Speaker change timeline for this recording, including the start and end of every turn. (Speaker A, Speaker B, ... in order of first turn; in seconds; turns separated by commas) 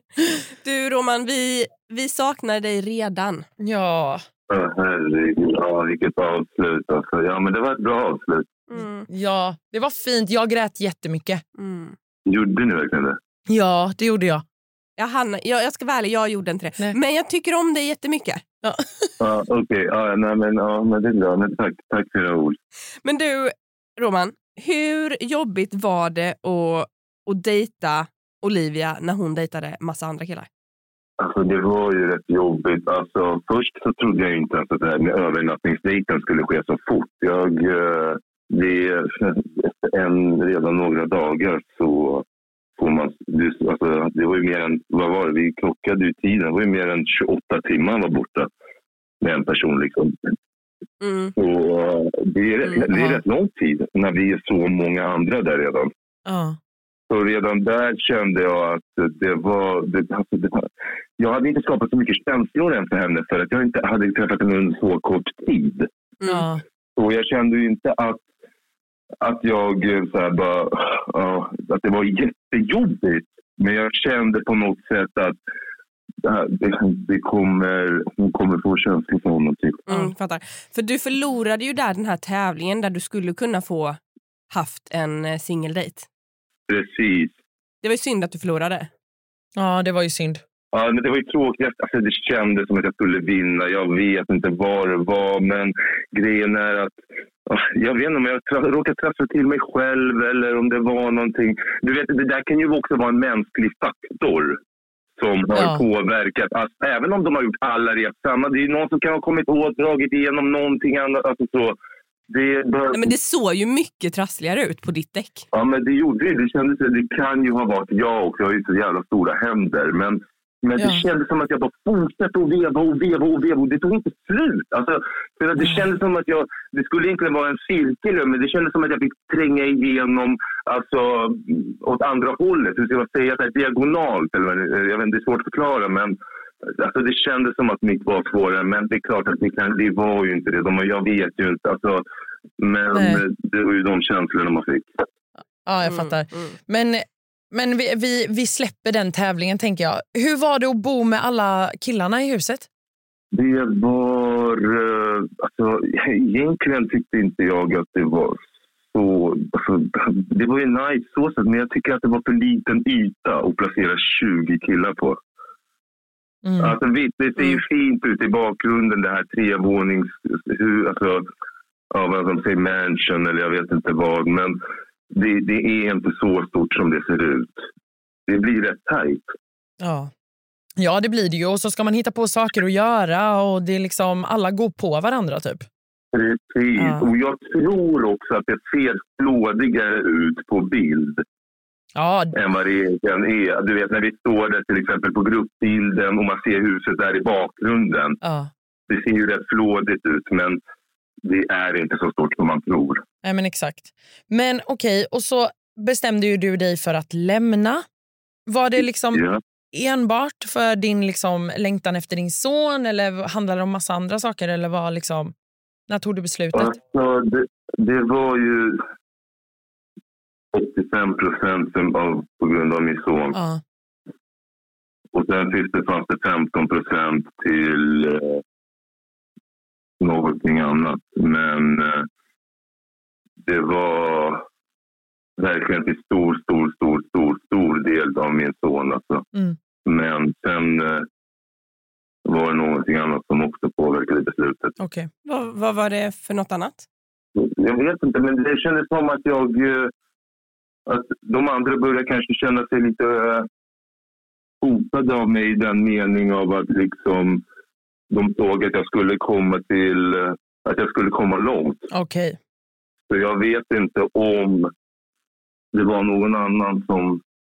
Speaker A: 0.6-3.5, Speaker B: 3.6-4.2, Speaker C: 4.5-8.6, Speaker A: 8.7-9.1, Speaker B: 9.1-11.4, Speaker A: 11.6-12.0, Speaker C: 12.3-13.2, Speaker B: 13.5-14.4, Speaker A: 15.0-18.4, Speaker B: 18.6-19.1, Speaker C: 19.2-22.6, Speaker A: 23.0-30.5, Speaker C: 31.2-42.2, Speaker C: 42.8-48.5, Speaker C: 49.2-50.2, Speaker A: 51.0-51.3, Speaker C: 51.4-55.9, Speaker B: 52.9-53.2, Speaker B: 56.3-56.6, Speaker C: 57.1-65.9, Speaker B: 66.3-66.6, Speaker C: 67.0-68.2, Speaker C: 69.2-75.4, Speaker C: 76.2-79.8, Speaker A: 79.9-84.0, Speaker A: 84.5-86.1, Speaker C: 86.7-87.3, Speaker A: 87.8-88.9, Speaker B: 89.6-90.4, Speaker C: 90.7-104.6, Speaker C: 105.2-111.8, Speaker B: 105.5-105.8, Speaker C: 112.3-113.1, Speaker A: 112.9-115.5, Speaker C: 115.5-142.0, Speaker B: 120.8-121.0, Speaker B: 125.6-125.8, Speaker C: 142.6-144.9, Speaker B: 142.9-143.2, Speaker B: 145.7-152.7, Speaker A: 145.8-146.6, Speaker C: 153.3-165.2, Speaker B: 166.4-166.8, Speaker C: 166.6-171.3, Speaker C: 171.9-174.6, Speaker C: 175.1-177.6, Speaker C: 178.3-179.2, Speaker B: 179.8-180.1, Speaker B: 180.8-185.7, Speaker C: 186.1-191.2, Speaker B: 186.8-187.1, Speaker B: 191.9-192.3, Speaker C: 192.3-198.2, Speaker B: 198.2-198.5, Speaker C: 198.9-200.6, Speaker C: 201.2-203.0, Speaker B: 203.2-207.8, Speaker B: 208.5-215.3, Speaker C: 209.1-209.4, Speaker B: 215.9-216.8, Speaker C: 216.5-218.8, Speaker C: 220.5-223.4, Speaker B: 223.3-223.6, Speaker C: 225.1-228.4, Speaker C: 230.0-232.1, Speaker C: 233.4-234.4, Speaker C: 235.4-239.3, Speaker C: 239.8-241.1, Speaker C: 242.3-244.7, Speaker B: 244.8-245.1, Speaker A: 245.2-246.9, Speaker C: 247.4-249.9, Speaker C: 250.9-253.5, Speaker C: 254.6-257.4, Speaker C: 258.1-261.9, Speaker B: 261.9-262.4, Speaker C: 263.1-264.7, Speaker C: 265.7-267.2